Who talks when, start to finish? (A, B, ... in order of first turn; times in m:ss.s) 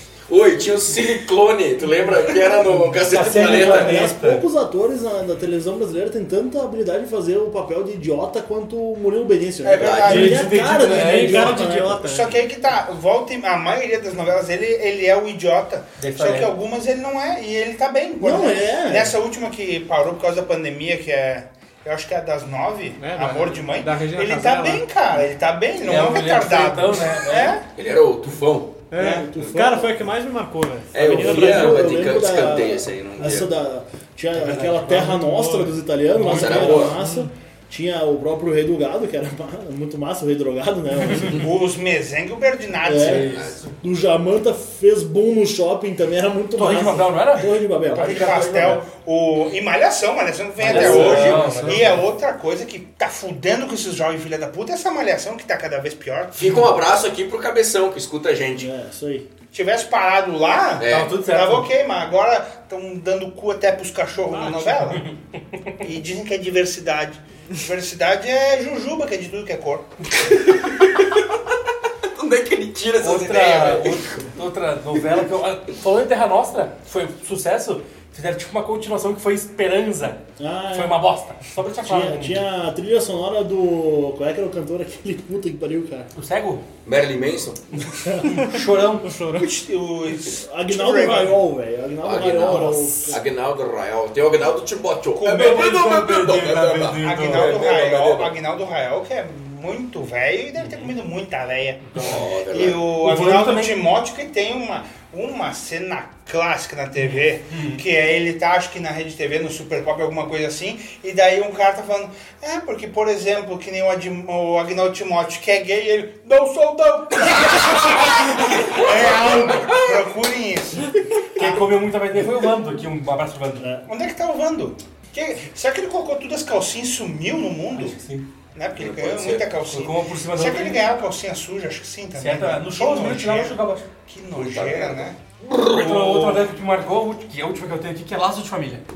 0:00.3-0:04.0 A
0:03.1-0:04.4 B
0:03.2-0:12.0 C
0:09.6-0:10.5 D
0:09.8-0:10.4 A
0:10.1-0:11.6 B
0:10.8-0:12.4 E
0:12.0-0:27.6 D
0:16.0-0:16.5 B
0:18.2-0:19.2 C
0:23.0-0:24.8 E
0:25.8-0:27.6 B
0:27.8-0:28.8 A
0:28.9-0:31.9 E
0:29.0-0:29.3 D
0:29.3-0:29.9 C
0:29.4-0:29.8 A
0:30.9-0:33.5 A
0:31.0-0:41.5 C
0:34.4-0:37.3 E
0:36.2-0:37.0 A
0:41.2-0:43.3 D
0:42.8-0:48.4 C
0:43.0-0:43.6 B
0:43.2-0:43.7 A
0:46.6-0:48.8 B
0:48.0-0:56.4 D
0:50.6-0:52.0 B
0:50.6-0:51.5 A
0:50.8-0:51.9 E
0:56.3-0:58.7 A
0:58.6-0:59.3 C
0:59.5-1:05.0 D
1:00.8-1:01.1 A
1:00.9-1:01.7 B
1:04.3-1:04.7 E
1:04.8-1:05.1 B
1:05.8-1:09.8 D
1:10.3-1:11.3 A
1:12.0-1:14.2 A
1:13.0-1:20.2 B
1:20.4-1:21.0 C
1:20.7-1:22.4 B
1:21.8-1:26.1 C
1:26.2-1:26.6 B
1:26.8-1:27.6 A
1:28.1-1:28.4 C
1:28.3-1:29.5 E
1:28.4-1:29.2 B
1:29.4-1:31.4 D
1:30.3-1:33.2 C
1:32.0-1:38.3 A
1:35.2-1:35.7 D
1:35.3-1:37.6 B
1:37.0-2:01.8 D
1:40.6-1:40.9 B
1:42.0-1:42.9 A
1:43.0-1:43.7 B
1:47.0-1:47.8 B
1:58.6-2:00.1 A
2:01.4-2:03.7 B
2:03.6-2:03.9 C
2:03.9-2:08.0 D
2:07.7-2:08.3 B
2:08.6-2:15.2 D
2:08.8-2:09.5 A
2:09.7-2:10.8 B
2:12.2-2:13.9 B
2:14.4-2:16.3 A
2:15.7-2:18.8 B
2:15.8-2:16.1 D